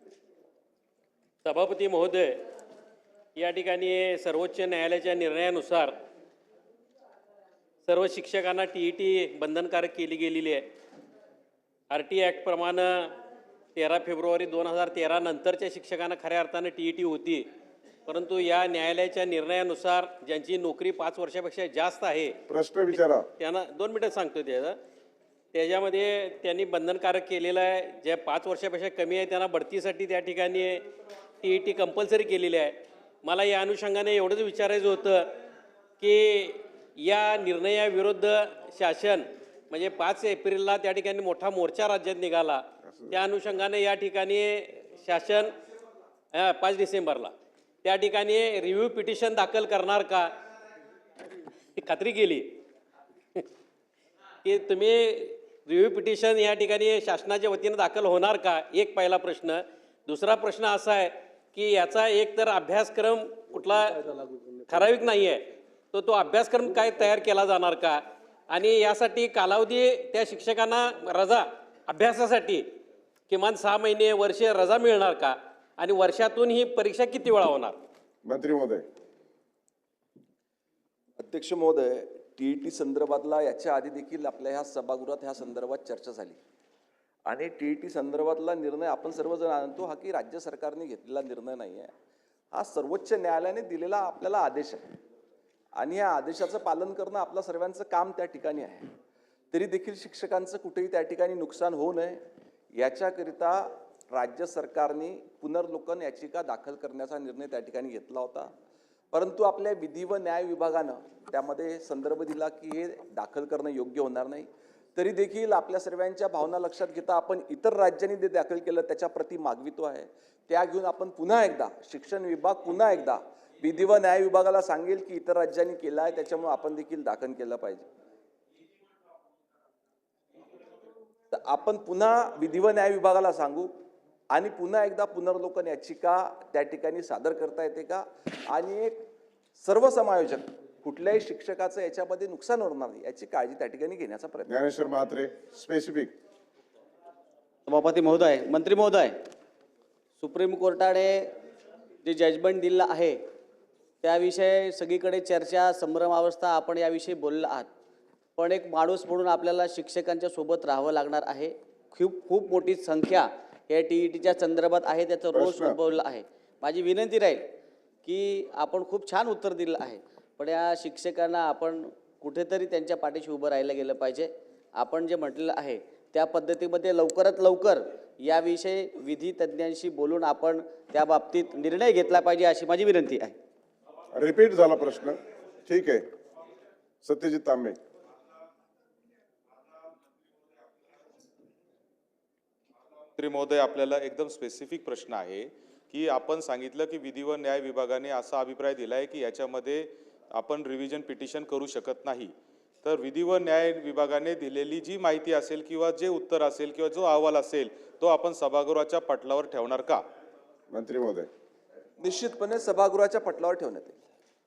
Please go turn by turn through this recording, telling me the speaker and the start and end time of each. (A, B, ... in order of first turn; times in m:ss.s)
0:01.4-0:02.4 A
0:03.4-0:06.0 A
0:07.9-0:10.7 A
0:11.9-0:13.2 A
0:13.8-0:17.5 A
0:18.1-0:22.4 A
0:22.5-0:23.2 B
0:23.0-0:24.8 A
0:25.5-0:30.9 A
0:31.4-0:35.3 A
0:36.0-0:45.5 A
0:46.3-0:47.3 A
0:47.8-0:50.3 A
0:51.8-0:52.6 A
0:54.4-1:12.7 A
1:13.3-1:17.8 A
1:18.2-1:18.8 B
1:21.2-1:26.4 C
1:27.3-1:31.9 C
1:32.5-1:35.0 C
1:35.8-1:38.9 C
1:39.5-1:42.2 C
1:42.7-1:48.5 C
1:49.1-2:07.9 C
2:11.3-2:13.7 C
2:14.3-2:19.0 C
2:19.6-2:24.5 C
2:24.5-2:26.1 B
2:27.9-2:29.1 D
2:30.2-2:31.3 D
2:32.0-2:33.1 D
2:34.0-2:37.7 D
2:38.4-2:47.4 D
2:45.3-2:45.8 B
2:48.0-3:03.4 D
3:04.1-3:06.0 B
3:07.0-3:07.8 B
3:13.2-3:30.0 E
3:30.7-3:31.3 B
3:32.0-3:33.9 C